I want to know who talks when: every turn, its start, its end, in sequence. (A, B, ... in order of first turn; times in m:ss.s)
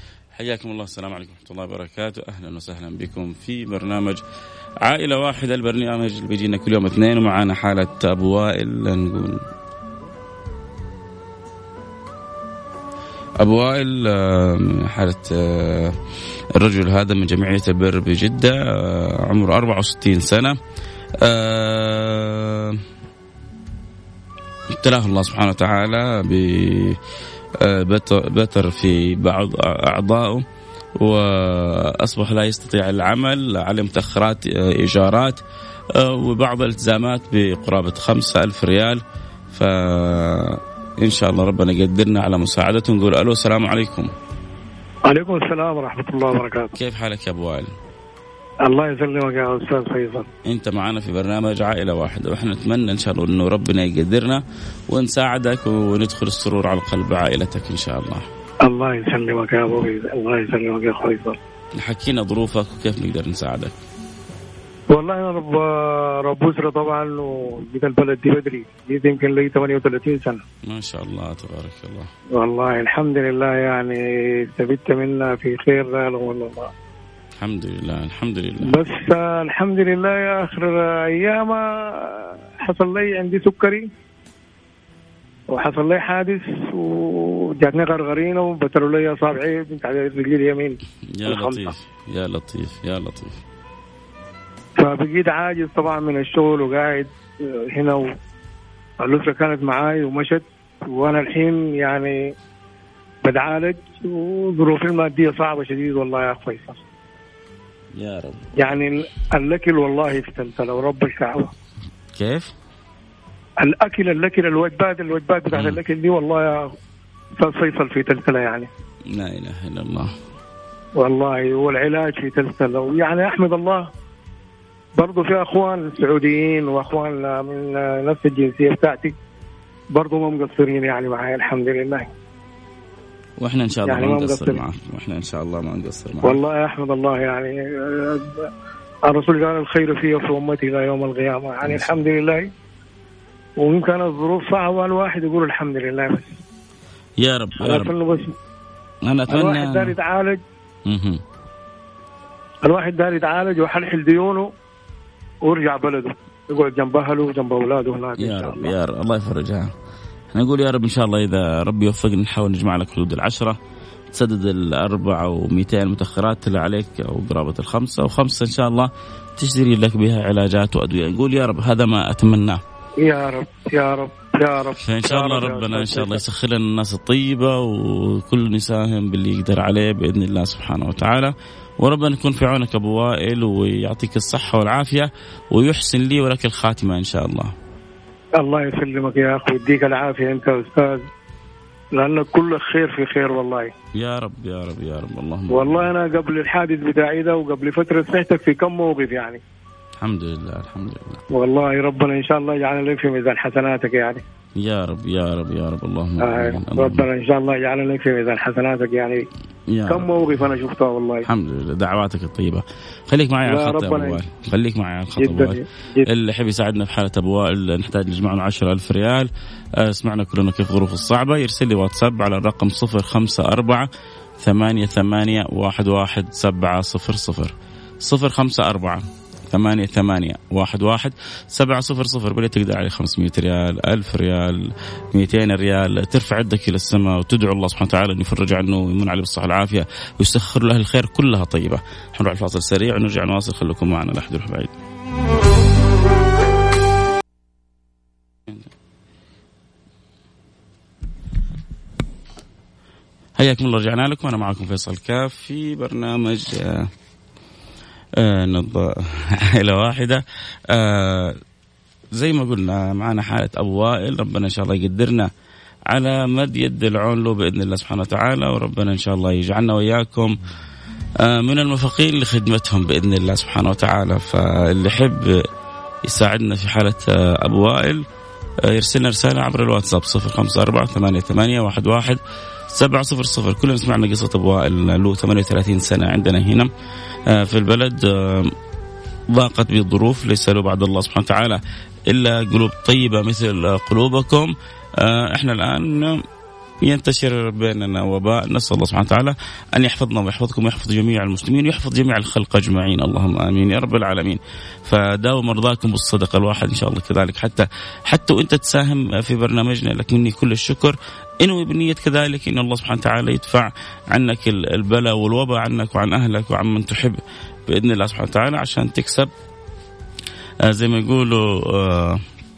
0:00.3-0:04.2 A
0:04.8-0:09.4 A
0:13.4-0:16.0 A
0:16.5-0:20.6 A
0:21.2-0:22.8 A
0:24.8-0:27.0 A
0:27.6-0:30.4 A
0:31.0-0:35.4 A
0:35.9-0:39.0 A
0:39.5-0:44.1 A
0:45.0-0:46.7 B
0:46.7-0:47.7 A
0:48.6-0:50.3 B
0:50.4-0:58.2 A
0:58.6-1:01.4 B
1:01.8-1:03.7 A
1:04.9-1:10.4 B
1:10.6-1:12.1 A
1:12.3-1:16.7 B
1:17.4-1:18.8 A
1:18.6-1:23.9 B
1:25.5-1:31.7 B
1:31.1-1:33.3 A
1:34.8-1:38.1 B
1:39.0-1:42.3 B
1:43.2-1:46.8 B
1:47.9-1:48.7 A
1:48.6-1:51.5 B
1:52.1-1:52.5 A
1:53.6-1:56.7 B
1:55.5-1:55.8 A
1:57.4-1:58.7 B
1:59.0-2:00.1 A
2:01.0-2:03.9 B
2:05.0-2:09.1 B
2:09.9-2:12.1 B
2:13.4-2:16.4 A
2:13.8-2:14.6 B
2:16.2-2:18.5 B
2:19.0-2:22.5 B
2:21.6-2:22.0 A
2:23.6-2:26.4 B
2:27.2-2:28.0 A
2:27.6-2:28.4 B
2:29.0-2:30.0 A
2:29.3-2:30.4 B
2:30.8-2:31.2 A
2:32.6-2:34.5 B
2:35.4-2:38.7 B
2:38.2-2:39.7 A
2:40.3-2:43.6 A
2:44.1-2:52.6 A
2:53.0-2:56.2 B
2:54.7-3:07.5 A
3:08.4-3:11.1 B
3:11.9-3:13.7 B
3:13.9-3:15.9 A
3:15.5-3:19.4 B
3:20.0-3:21.2 A
3:21.3-3:24.2 B
3:24.6-3:27.1 A
3:26.2-3:29.3 B
3:29.7-3:30.5 A
3:29.9-3:31.3 B
3:31.2-3:43.9 A
3:33.4-3:34.2 B
3:35.2-3:36.1 B
3:44.4-4:04.7 A
4:13.4-4:16.9 A
4:18.2-4:21.4 A
4:22.1-4:25.3 A
4:25.9-4:30.4 A
4:31.2-4:35.5 A
4:36.0-4:38.0 A
4:38.6-4:46.7 A
4:47.3-4:48.5 A
4:49.3-4:56.2 A
4:56.8-5:19.3 A
5:20.6-5:22.2 A